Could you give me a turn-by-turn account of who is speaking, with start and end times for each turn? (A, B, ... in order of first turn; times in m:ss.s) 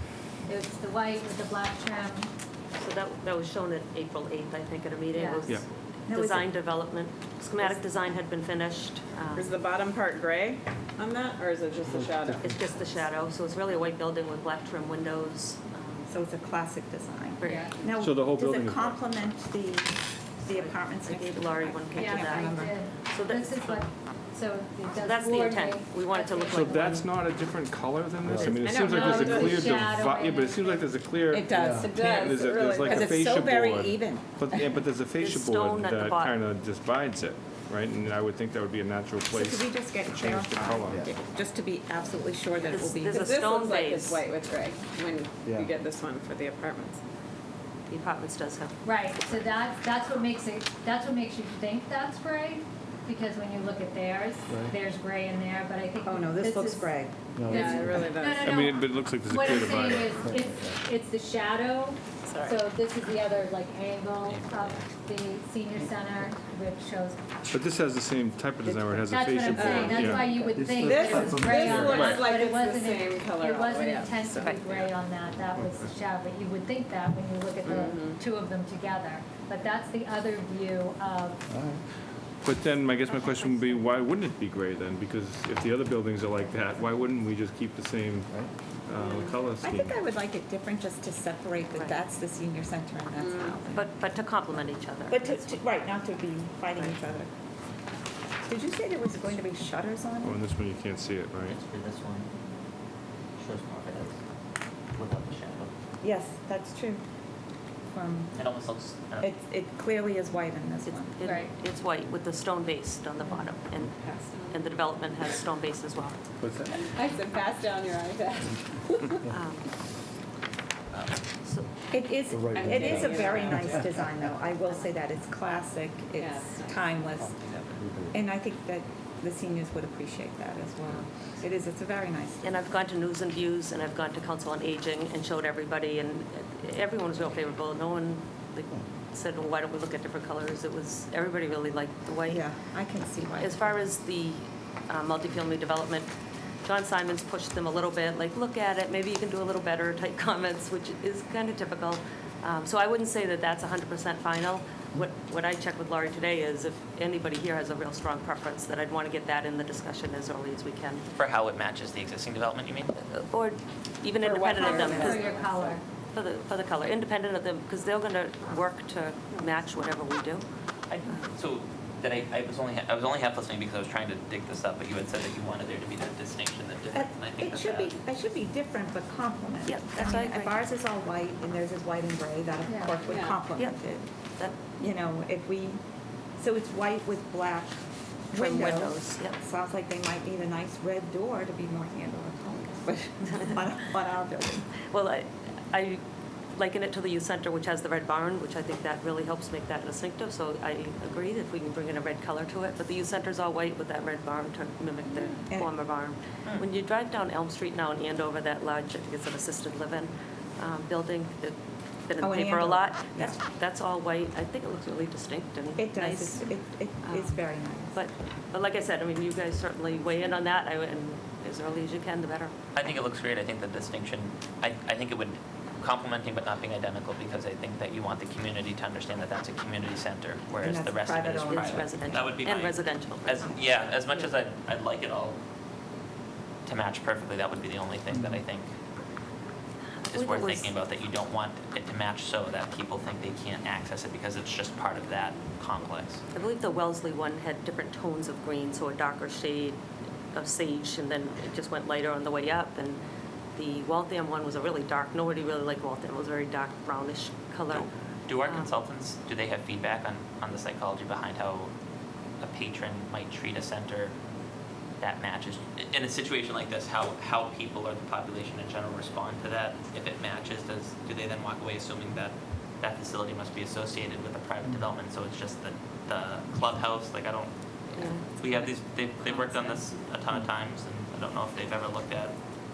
0:00.4-0:02.3 A
0:02.8-0:09.5 B
0:05.1-0:05.5 A
0:06.1-0:06.5 C
0:09.3-0:12.7 D
0:11.9-0:12.4 E
0:12.4-0:16.1 B
0:16.1-0:22.8 C
0:17.4-0:17.8 B
0:17.4-0:17.7 A
0:18.0-0:19.0 F
0:20.5-0:22.5 B
0:21.9-0:27.0 A
0:23.0-0:23.8 B
0:24.9-0:27.0 B
0:26.5-0:41.0 F
0:28.2-0:28.6 E
0:28.4-0:29.8 D
0:28.8-0:30.9 A
0:31.3-0:31.9 C
0:31.5-0:31.9 E
0:31.8-0:33.2 D
0:32.8-0:34.6 C
0:35.2-0:36.4 B
0:39.3-0:43.6 C
0:42.6-0:44.2 B
0:43.1-0:47.0 D
0:45.4-0:45.7 E
0:47.9-0:48.7 B
0:48.8-1:07.2 A
0:56.0-0:57.7 C
0:57.4-0:57.7 E
0:57.5-0:58.6 D
0:58.4-1:00.3 F
1:02.2-1:02.7 D
1:04.2-1:04.8 G
1:07.5-1:10.3 F
1:08.6-1:09.0 C
1:09.0-1:21.4 A
1:09.5-1:14.9 D
1:10.0-1:11.2 C
1:10.6-1:12.0 E
1:11.7-1:12.3 F
1:17.6-1:18.2 D
1:21.5-1:21.8 E
1:22.4-1:28.3 F
1:23.0-1:24.0 B
1:28.9-1:30.0 F
1:29.0-1:29.3 D
1:29.6-1:33.9 C
1:31.7-1:32.0 B
1:33.2-1:33.5 D
1:33.7-1:35.6 B
1:35.1-1:37.3 C
1:36.8-1:37.1 B
1:38.4-1:40.4 C
1:40.2-1:41.6 F
1:41.4-1:42.3 G
1:43.4-1:44.2 G
1:44.9-1:45.7 G
1:46.0-1:47.0 C
1:47.9-1:48.4 C
1:48.3-1:49.3 G
1:49.2-1:51.1 C
1:50.8-1:54.0 B
1:51.2-1:51.5 A
1:53.9-1:54.7 D
1:54.5-1:56.2 B
1:56.7-1:59.3 D
1:59.3-1:59.7 B
2:00.9-2:01.2 G
2:01.9-2:07.3 C
2:02.3-2:04.0 E
2:02.5-2:04.2 D
2:04.7-2:04.9 B
2:06.2-2:06.8 D
2:07.0-2:07.8 G
2:07.8-2:08.1 E
2:08.1-2:12.6 C
2:12.4-2:22.5 B
2:22.3-2:23.8 C
2:23.4-2:26.1 B
2:26.6-2:41.1 B
2:41.2-2:42.9 G
2:43.1-2:45.3 B
2:44.2-2:45.8 D
2:44.5-2:45.2 C
2:44.6-2:45.8 A
2:46.1-2:50.4 B
2:50.9-2:57.9 G
2:56.9-3:04.1 C
2:59.6-3:00.6 B
3:02.6-3:03.0 A
3:03.0-3:03.5 D
3:03.5-3:03.8 B
3:04.8-3:05.8 C
3:06.4-3:07.8 C
3:08.3-3:14.7 C
3:08.3-3:09.4 B
3:14.9-3:16.0 B
3:16.6-3:31.6 B
3:32.1-3:36.5 B
3:32.2-3:33.4 C
3:35.8-3:38.0 C
3:37.0-3:37.4 B
3:37.9-3:42.5 B
3:42.7-3:55.4 G
3:50.6-3:52.3 C
3:51.5-3:54.3 B
3:56.6-3:58.7 G
4:00.1-4:00.7 B
4:00.1-4:06.2 G
4:06.3-4:09.8 B
4:10.3-4:13.0 B
4:13.6-4:17.9 B
4:17.7-4:21.7 G
4:18.4-4:18.7 B
4:22.4-4:24.1 G
4:25.0-4:42.3 G
4:38.0-4:38.7 B
4:39.2-4:40.0 B